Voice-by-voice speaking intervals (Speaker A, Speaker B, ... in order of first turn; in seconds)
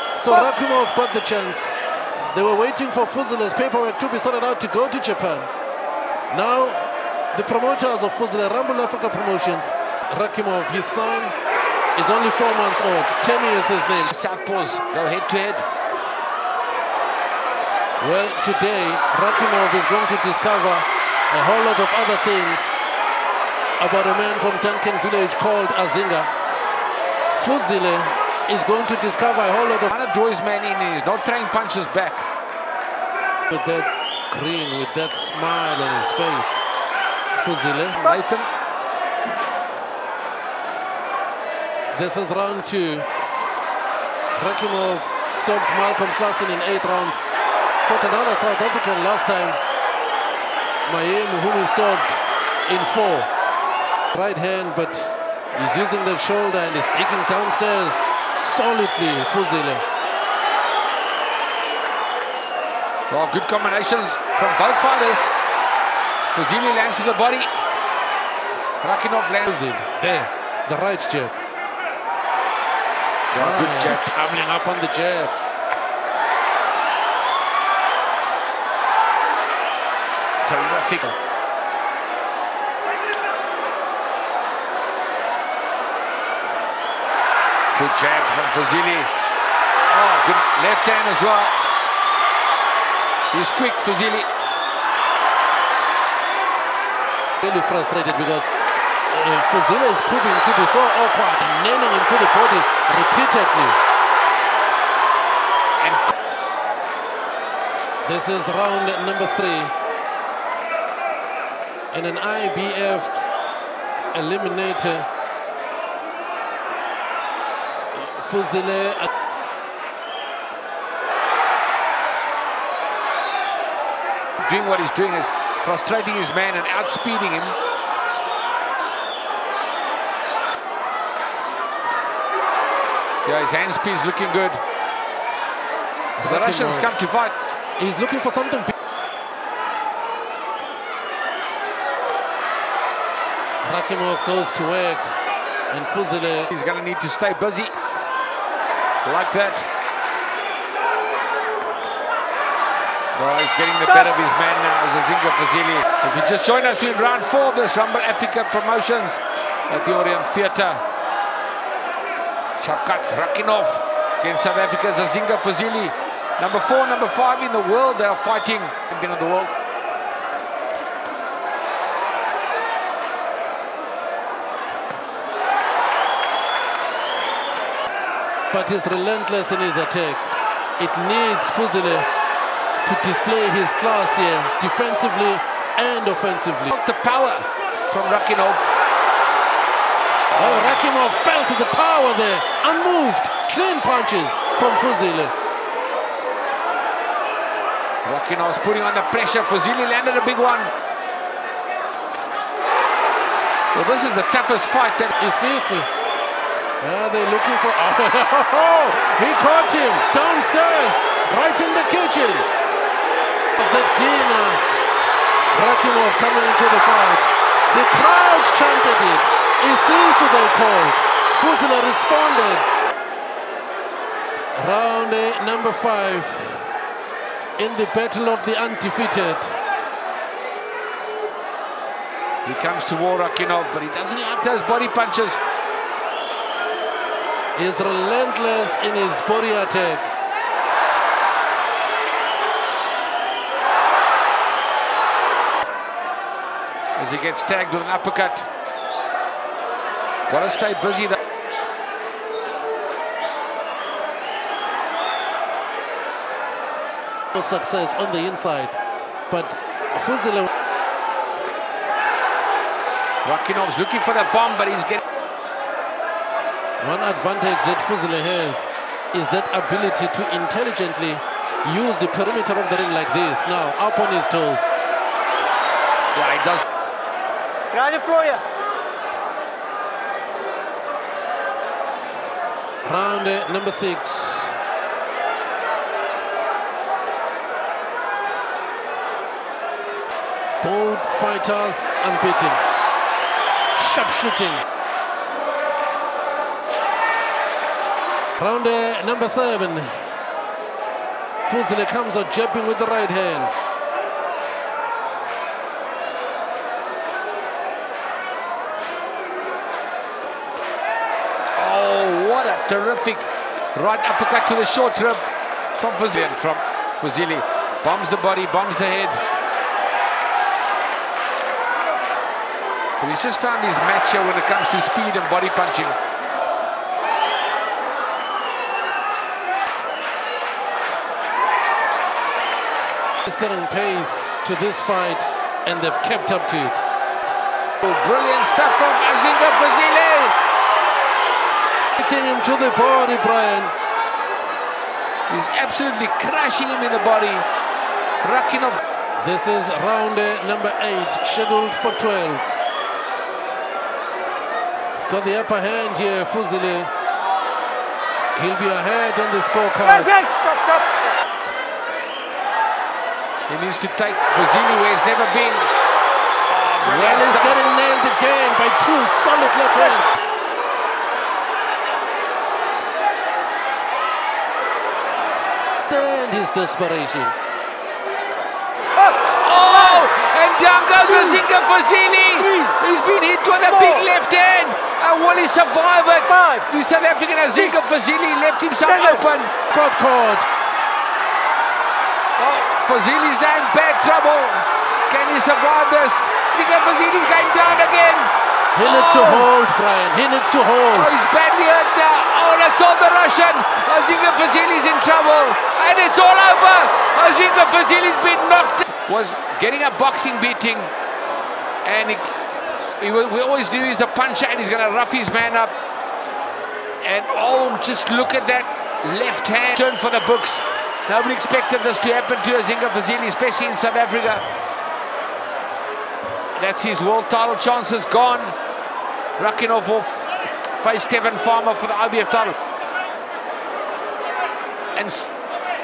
Speaker A: 0.2-1.7, 2.3-5.5, 6.3-11.3, 11.9-14.1, 18.0-22.8, 23.8-26.3, 27.3-29.9, 33.5-36.6, 37.3-38.0, 41.9-43.1, 44.4-47.2, 47.8-49.6, 50.9-53.3, 54.1-59.8, 69.5-71.3, 73.3-75.3, 97.4-98.5, 99.1-103.8, 108.0-109.7, 111.9-113.2, 114.1-115.1, 117.9-119.1, 136.2-137.0, 137.8-138.7, 143.6-145.1, 145.7-146.5, 178.5-180.2, 180.8-182.1, 182.8-186.7, 190.3-195.3, 205.2-205.9, 206.8-212.5, 213.6-214.6, 215.5-222.7, 224.6-226.7, 227.6-229.5, 237.6-240.1, 257.3-258.8, 259.3-260.5, 266.8-274.7, 282.8-284.6, 290.6-292.6, 293.8-294.6, 298.4-300.1, 301.4-303.5, 333.2-336.8, 342.0-343.7, 349.2-352.4, 355.0-356.9, 358.3-360.1, 366.8-370.1, 375.9-377.3, 389.7-390.5, 398.7-401.1
Speaker B: 14.1-15.6, 29.9-32.3, 38.0-38.5, 63.1-65.3, 66.3-67.5, 68.8-69.6, 73.3-74.0, 80.4-81.2, 87.7-89.1, 89.9-91.5, 93.3-94.3, 105.8-106.1, 124.4-127.5, 133.2-134.6, 136.2-137.3, 146.5-147.7, 149.0-149.7, 153.1-160.8, 162.6-169.5, 186.7-188.7, 190.3-190.9, 198.0-200.7, 203.7-205.1, 232.4-235.4, 246.9-248.5, 250.3-251.2, 263.2-265.0, 276.1-276.6, 311.5-315.2, 315.8-319.2, 323.0-326.0, 337.8-340.3, 345.3-347.4, 348.2-348.8, 363.5-365.7, 366.5-367.6, 379.2-389.5, 392.4-399.5, 400.9-410.9, 411.8-412.3, 413.0-415.7, 417.0-424.4, 426.6-428.5, 429.4-432.6, 434.9-435.3
Speaker C: 277.7-278.4, 359.8-361.2, 386.3-386.7, 388.9-389.2